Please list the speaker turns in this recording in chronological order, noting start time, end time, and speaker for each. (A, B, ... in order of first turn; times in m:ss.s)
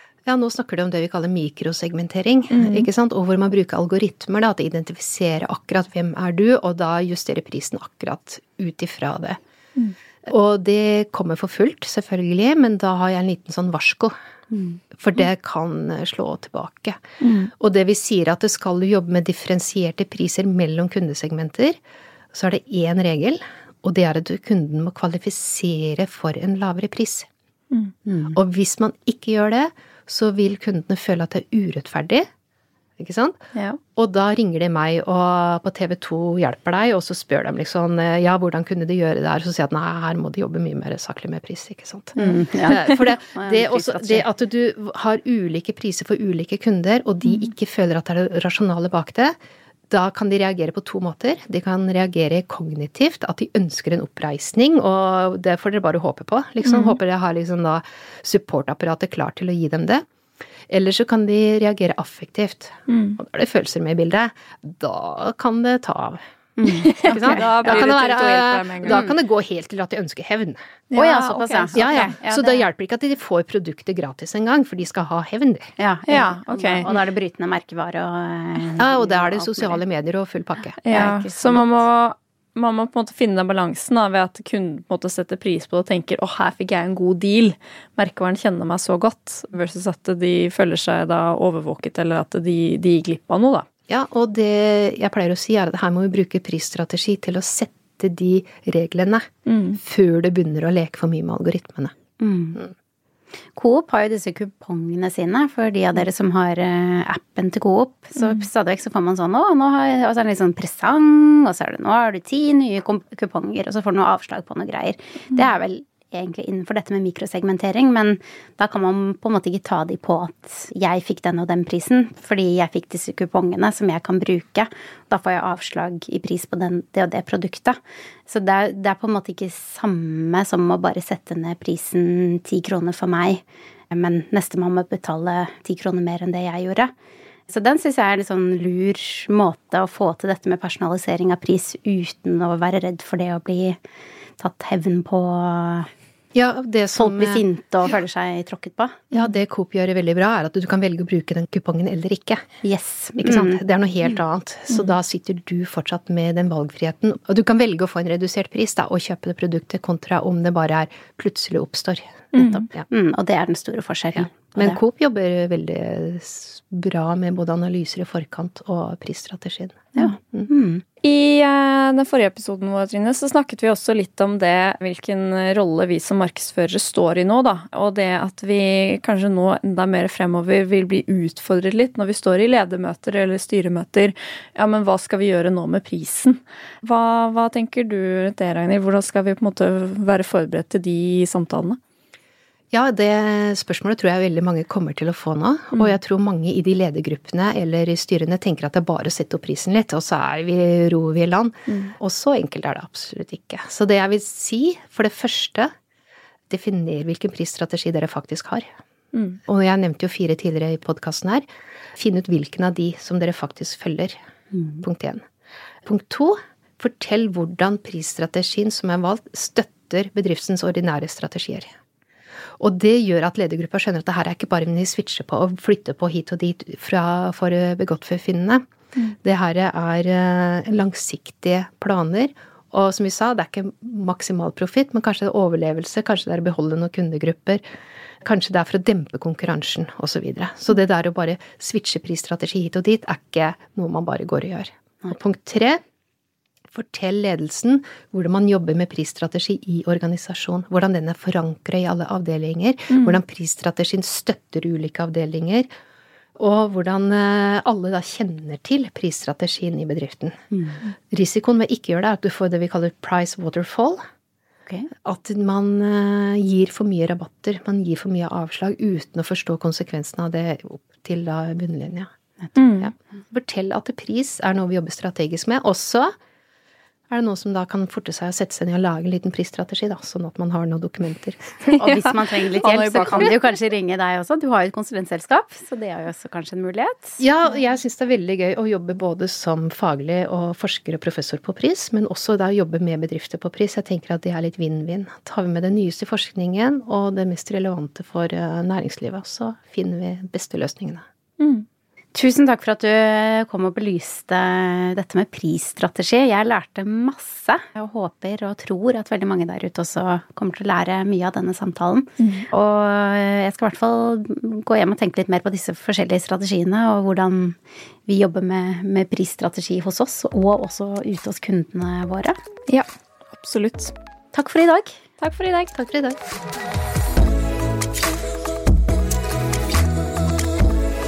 0:00.3-0:09.4 A
0:02.5-0:02.9 B
0:10.3-0:14.2 A
0:14.5-0:14.8 C
0:14.9-0:17.0 A
0:17.2-0:17.5 B
0:17.6-0:21.8 A
0:22.3-0:27.3 A
0:28.3-0:32.3 A
0:33.0-0:33.4 A
0:34.0-0:49.4 A
0:42.2-0:44.3 C
0:49.9-1:00.1 A
1:00.7-1:06.2 A
1:02.9-1:03.2 B
1:06.6-1:07.4 C
1:06.8-1:09.1 B
1:07.0-1:10.6 A
1:08.9-1:09.1 C
1:10.9-1:12.1 B
1:10.9-1:12.6 C
1:11.7-1:15.8 A
1:15.8-1:19.8 C
1:16.1-1:16.9 B
1:18.8-1:20.8 A
1:20.8-1:33.6 B
1:20.9-1:21.6 C
1:33.9-1:41.9 A
1:39.5-1:39.8 B
1:42.2-1:42.6 C
1:43.6-2:16.9 C
2:17.5-2:23.8 C
2:24.4-2:25.9 C
2:26.3-2:27.4 A
2:27.0-2:29.1 C
2:29.1-2:32.4 A
2:32.6-2:33.6 C
2:33.2-2:42.8 A
2:42.3-2:42.6 B
2:42.4-2:44.8 C
2:44.3-2:50.5 A
2:50.0-2:50.8 C
2:51.0-3:11.8 B
3:12.7-3:25.7 A
3:21.7-3:21.9 B
3:26.5-3:28.7 A
3:29.1-3:29.4 B
3:29.5-3:34.2 A
3:34.6-3:34.8 C
3:34.8-3:35.2 A
3:35.8-3:41.7 A
3:42.6-3:48.6 A
3:49.2-3:57.6 A
3:58.2-4:05.8 A
4:06.7-4:15.7 A
4:12.9-4:13.2 B
4:16.4-4:20.4 A
4:20.5-4:20.8 C
4:21.1-4:24.0 A
4:25.0-4:32.1 A
4:32.6-4:32.9 B
4:32.8-4:36.1 A
4:37.1-4:41.7 A
4:41.7-4:42.1 B
4:41.8-4:47.2 C
4:42.6-4:43.3 B
4:47.2-5:01.0 A
5:01.4-5:01.7 B
5:02.2-5:22.4 C
5:12.2-5:12.5 B
5:22.7-5:23.9 B
5:24.3-5:25.0 C
5:25.2-5:26.2 B